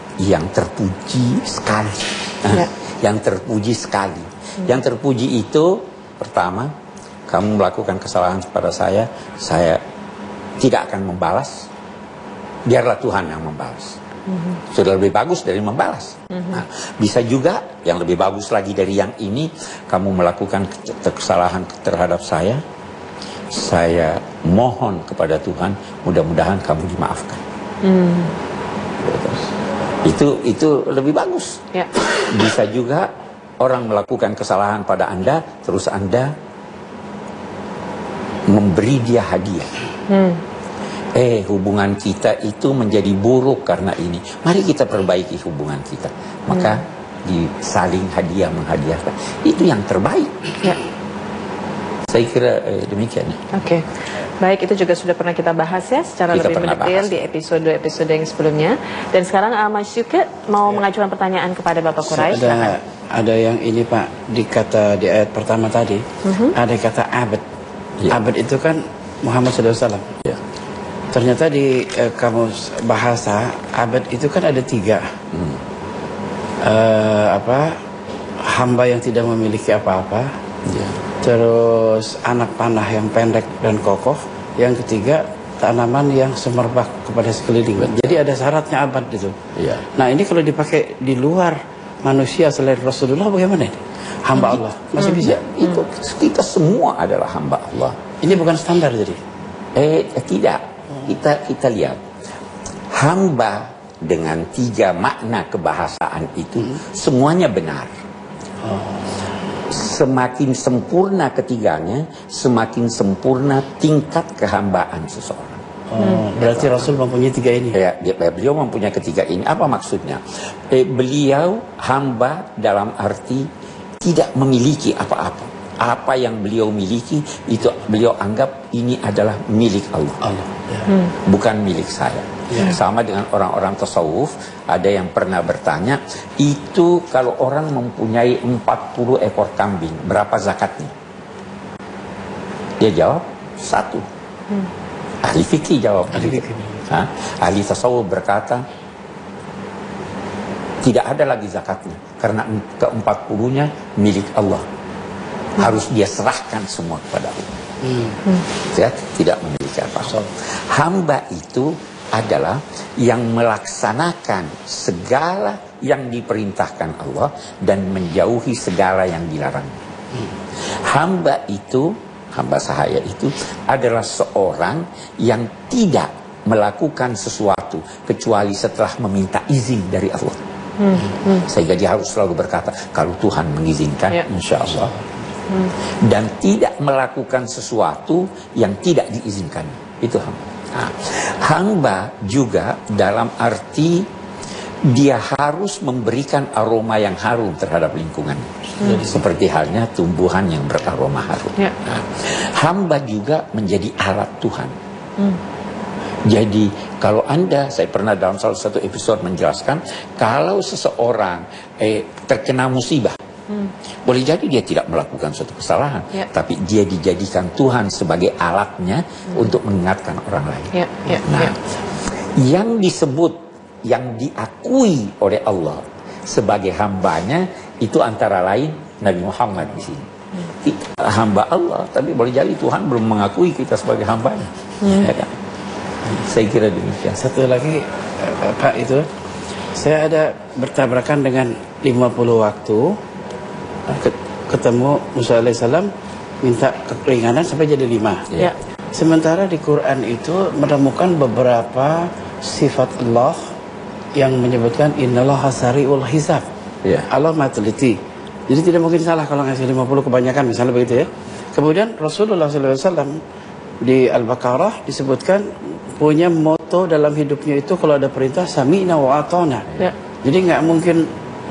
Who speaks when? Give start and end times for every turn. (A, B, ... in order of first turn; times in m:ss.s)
0:00.2-0:06.7 A
0:07.3-0:09.8 A
0:10.6-0:11.7 A
0:12.7-0:14.0 A
0:14.3-0:14.6 B
0:14.7-0:22.6 A
0:16.3-0:16.6 B
0:23.5-0:27.4 A
0:27.8-0:28.4 B
0:29.0-0:29.5 A
0:30.0-0:36.3 A
0:38.5-0:39.7 A
0:40.1-0:40.4 B
0:41.2-0:50.5 A
0:52.1-0:53.5 A
0:53.5-1:02.8 B
0:56.3-0:57.2 A
1:02.1-1:07.4 C
1:06.2-1:06.6 B
1:08.1-1:10.1 C
1:11.1-1:15.1 C
1:15.3-1:15.6 A
1:16.6-1:17.8 C
1:18.4-1:20.3 C
1:20.7-1:21.0 A
1:21.2-1:29.4 C
1:27.8-1:28.2 A
1:29.6-1:29.8 A
1:30.0-1:35.4 C
1:34.4-1:38.0 A
1:38.2-1:39.2 C
1:39.8-1:42.0 A
1:42.9-1:47.9 A
1:48.6-1:49.1 C
1:49.7-1:55.6 A
1:55.9-1:57.8 C
1:56.4-1:56.9 A
1:57.7-2:03.5 A
2:04.0-2:10.2 A
2:10.2-2:10.9 C
2:11.1-2:20.9 A
2:22.8-2:24.1 A
2:25.2-2:28.6 A
2:26.1-2:26.9 C
2:30.8-2:34.7 A
2:35.6-2:37.5 A
2:37.8-2:38.2 C
2:38.5-2:49.7 A
2:50.7-3:00.4 A
3:00.8-3:01.5 B
3:01.4-3:04.9 A
3:06.0-3:14.1 A
3:14.9-3:24.8 A
3:18.8-3:19.0 B
3:18.8-3:19.2 C
3:26.3-3:33.2 A
3:34.1-3:55.4 A
3:40.7-3:41.6 B
3:54.8-3:55.1 B
3:56.2-3:57.2 A
3:57.2-3:59.1 C
3:59.8-4:03.0 C
4:03.9-4:05.9 C
4:06.4-4:08.3 C
4:08.9-4:13.4 C
4:14.2-4:16.4 C
4:17.1-4:23.2 C
4:23.8-4:29.7 C
4:30.2-4:31.1 C